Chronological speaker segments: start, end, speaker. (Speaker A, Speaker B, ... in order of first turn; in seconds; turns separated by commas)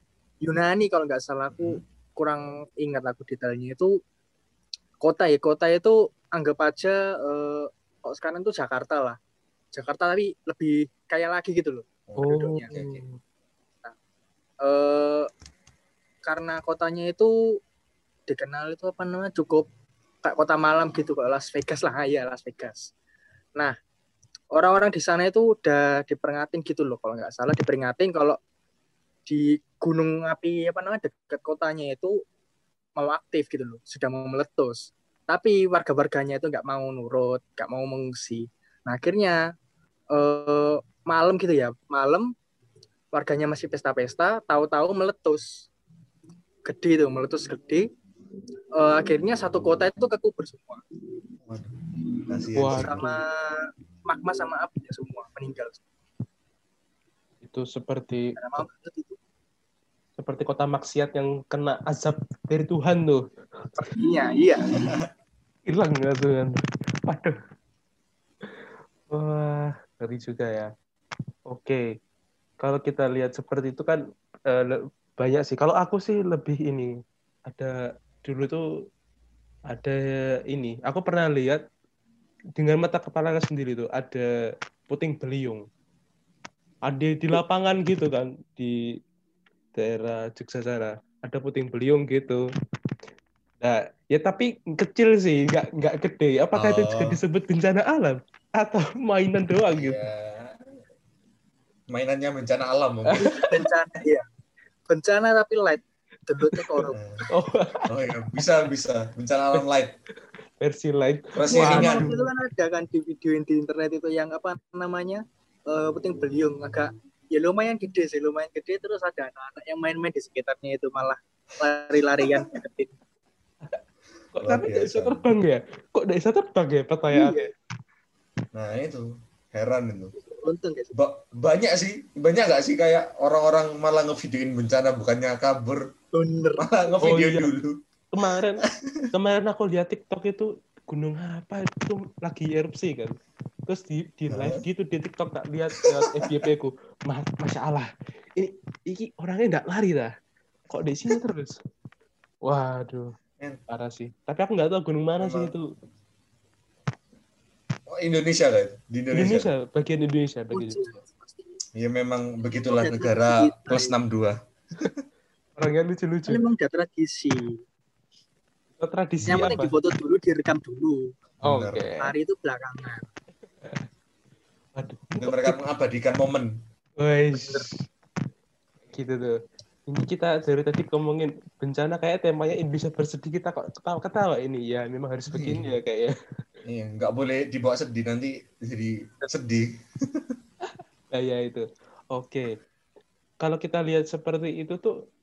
Speaker A: 0.4-3.9, Speaker B: 1.5-1.8, Speaker A: 5.0-9.2, Speaker A: 9.7-13.0, Speaker B: 12.1-13.0, Speaker C: 12.2-13.2, Speaker A: 14.6-15.3, Speaker A: 16.2-17.3, Speaker A: 18.3-19.7, Speaker A: 20.2-22.9, Speaker A: 24.5-28.4, Speaker A: 29.2-32.1, Speaker A: 33.0-39.4, Speaker A: 40.1-42.3, Speaker A: 43.1-45.7, Speaker A: 46.6-47.8, Speaker A: 48.8-50.8, Speaker B: 51.4-51.7, Speaker B: 52.3-53.0, Speaker C: 52.5-53.2, Speaker A: 52.6-55.8, Speaker C: 57.4-58.6, Speaker A: 58.4-59.2, Speaker C: 60.2-63.2, Speaker A: 63.8-64.7, Speaker C: 65.7-66.5, Speaker C: 67.1-67.3, Speaker C: 69.1-70.7, Speaker C: 71.5-71.8, Speaker C: 72.6-74.0, Speaker C: 74.5-76.9, Speaker C: 77.5-78.6, Speaker C: 79.7-81.6, Speaker C: 82.6-84.3, Speaker C: 84.9-85.6, Speaker C: 86.9-88.7, Speaker C: 89.8-92.4, Speaker C: 93.6-100.0, Speaker B: 96.5-97.2, Speaker B: 99.7-100.6, Speaker B: 101.9-103.3, Speaker C: 103.2-103.6, Speaker A: 103.2-104.2, Speaker A: 104.9-107.0, Speaker C: 106.5-106.8, Speaker C: 107.3-107.8, Speaker B: 107.9-109.9, Speaker C: 110.6-112.3, Speaker B: 111.4-112.1, Speaker A: 111.5-122.9, Speaker C: 124.3-127.5, Speaker B: 124.4-125.2, Speaker A: 127.1-127.5, Speaker B: 128.5-130.1, Speaker A: 130.2-131.0, Speaker B: 130.9-135.8, Speaker A: 136.1-136.7, Speaker B: 136.6-137.8, Speaker C: 137.0-137.5, Speaker C: 138.1-143.2, Speaker C: 143.7-150.1, Speaker B: 144.3-144.6, Speaker B: 145.8-146.2, Speaker C: 150.7-151.5, Speaker C: 152.5-153.2, Speaker C: 153.7-155.7, Speaker B: 155.2-155.5, Speaker B: 157.9-159.5, Speaker C: 159.1-161.0, Speaker A: 160.5-161.4, Speaker B: 161.8-165.0, Speaker A: 162.5-163.9, Speaker C: 165.6-166.4, Speaker A: 166.3-167.5, Speaker C: 168.8-169.8, Speaker B: 169.2-169.6, Speaker A: 169.3-171.1, Speaker B: 171.4-171.9, Speaker C: 171.4-172.1, Speaker A: 172.0-173.0, Speaker C: 174.8-175.5, Speaker B: 175.2-176.5, Speaker C: 177.0-177.8, Speaker A: 177.3-177.7, Speaker C: 178.9-179.3, Speaker C: 179.9-186.1, Speaker B: 185.3-185.6, Speaker B: 186.6-190.4, Speaker C: 191.1-192.5, Speaker C: 193.4-194.9